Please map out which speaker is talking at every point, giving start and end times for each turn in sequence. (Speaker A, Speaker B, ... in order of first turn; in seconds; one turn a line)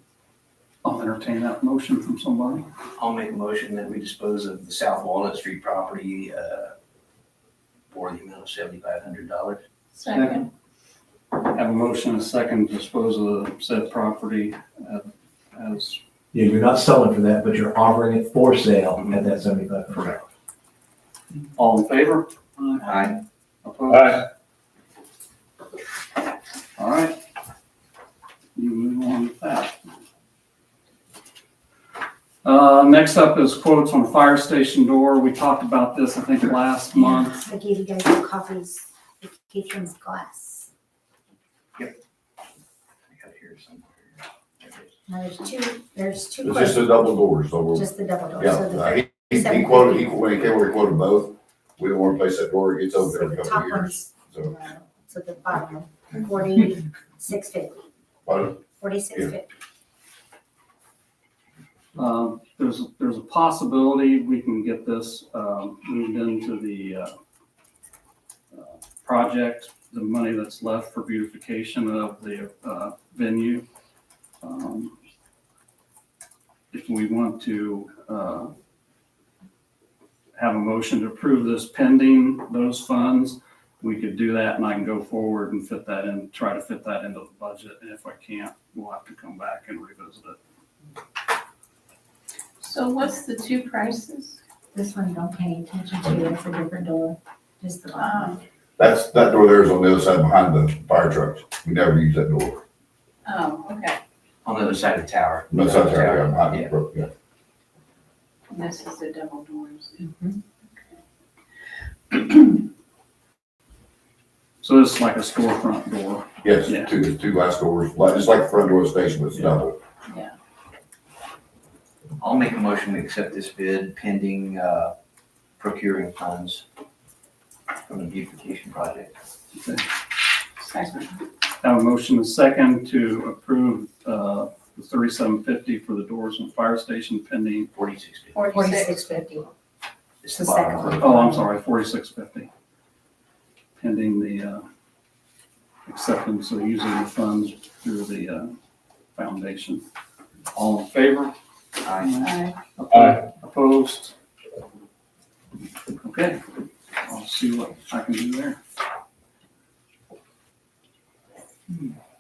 Speaker A: 0.8-2.7
Speaker B: 3.0-6.8
Speaker B: 7.9-10.4
Speaker C: 9.9-10.5
Speaker A: 11.4-16.0
Speaker D: 16.3-20.2
Speaker A: 21.6-23.0
Speaker B: 22.8-23.2
Speaker A: 23.6-24.3
Speaker A: 26.8-27.2
Speaker A: 28.6-29.8
Speaker A: 32.4-37.4
Speaker E: 37.0-40.7
Speaker B: 43.1-44.9
Speaker E: 45.1-47.0
Speaker F: 46.4-54.5
Speaker E: 47.7-50.2
Speaker E: 53.0-57.8
Speaker F: 58.2-58.6
Speaker E: 58.8-59.4
Speaker A: 61.9-67.1
Speaker A: 68.5-73.6
Speaker A: 74.4-74.9
Speaker A: 76.7-78.5
Speaker A: 80.4-90.4
Speaker C: 92.6-94.4
Speaker E: 94.7-98.4
Speaker C: 97.9-98.4
Speaker F: 98.8-102.6
Speaker C: 103.2-104.0
Speaker B: 104.4-106.7
Speaker F: 105.5-107.1
Speaker C: 108.5-110.1
Speaker E: 110.0-110.4
Speaker C: 110.7-111.0
Speaker C: 112.1-112.4
Speaker A: 114.6-116.9
Speaker F: 116.4-119.8
Speaker C: 120.1-120.3
Speaker B: 122.2-124.9
Speaker B: 125.6-126.6
Speaker B: 127.9-129.2
Speaker C: 130.6-131.2
Speaker A: 131.6-137.7
Speaker B: 137.7-138.4
Speaker C: 138.3-139.0
Speaker E: 138.4-139.5
Speaker B: 140.2-141.5
Speaker E: 140.3-141.3
Speaker A: 141.0-142.5
Speaker A: 143.8-144.7
Speaker A: 145.9-148.5
Speaker A: 149.2-149.8
Speaker A: 150.5-151.3
Speaker B: 151.8-152.2
Speaker A: 151.9-154.1
Speaker C: 152.2-152.6
Speaker A: 156.0-156.4
Speaker A: 157.0-158.6